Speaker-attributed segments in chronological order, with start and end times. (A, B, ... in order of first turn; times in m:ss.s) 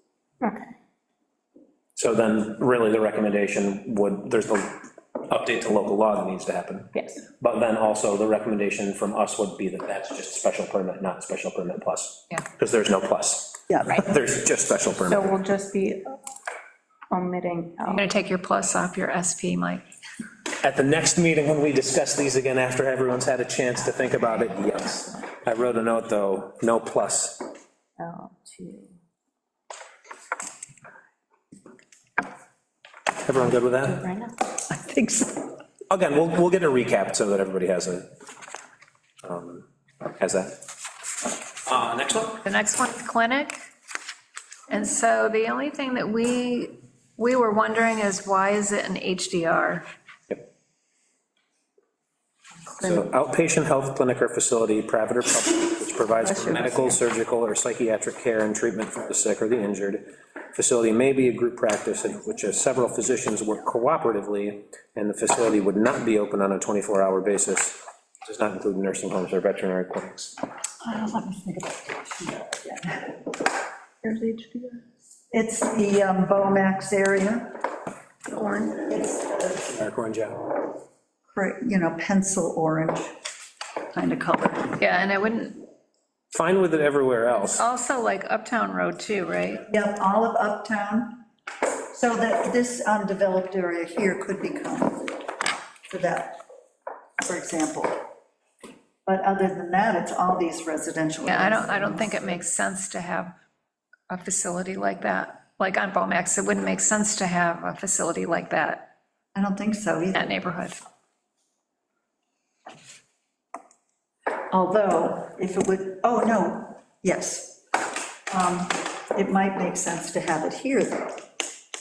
0:00.4-0:00.7 A
0:02.0-0:15.3 B
0:13.7-0:14.0 C
0:15.1-0:16.2 A
0:17.1-0:18.0 A
0:17.9-0:19.8 D
0:20.6-0:27.4 B
0:28.0-0:28.9 A
0:33.2-0:34.1 B
0:34.0-0:34.3 A
0:34.7-0:35.4 C
0:35.9-0:38.1 B
0:39.2-0:40.6 B
0:41.6-0:42.4 B
0:42.4-0:43.6 D
0:44.7-0:49.8 D
0:52.8-0:53.1 C
0:52.8-1:10.3 B
0:56.2-0:57.0 C
1:10.8-1:13.2 C
1:14.0-1:14.8 A
1:15.3-1:17.6 C
1:18.3-1:18.8 A
1:18.8-1:19.7 C
1:19.7-1:20.5 B
1:21.3-1:23.2 C
1:23.9-1:24.8 C
1:24.8-1:25.7 D
1:26.3-1:27.6 B
1:27.5-1:29.6 D
1:29.7-1:31.2 C
1:31.9-1:35.2 C
1:35.9-1:36.4 C
1:37.2-1:38.0 C
1:39.0-1:42.3 C
1:41.2-1:43.3 D
1:44.1-1:48.9 D
1:49.3-1:50.4 C
1:50.1-1:50.8 D
1:54.5-1:57.6 C
1:58.3-2:01.2 C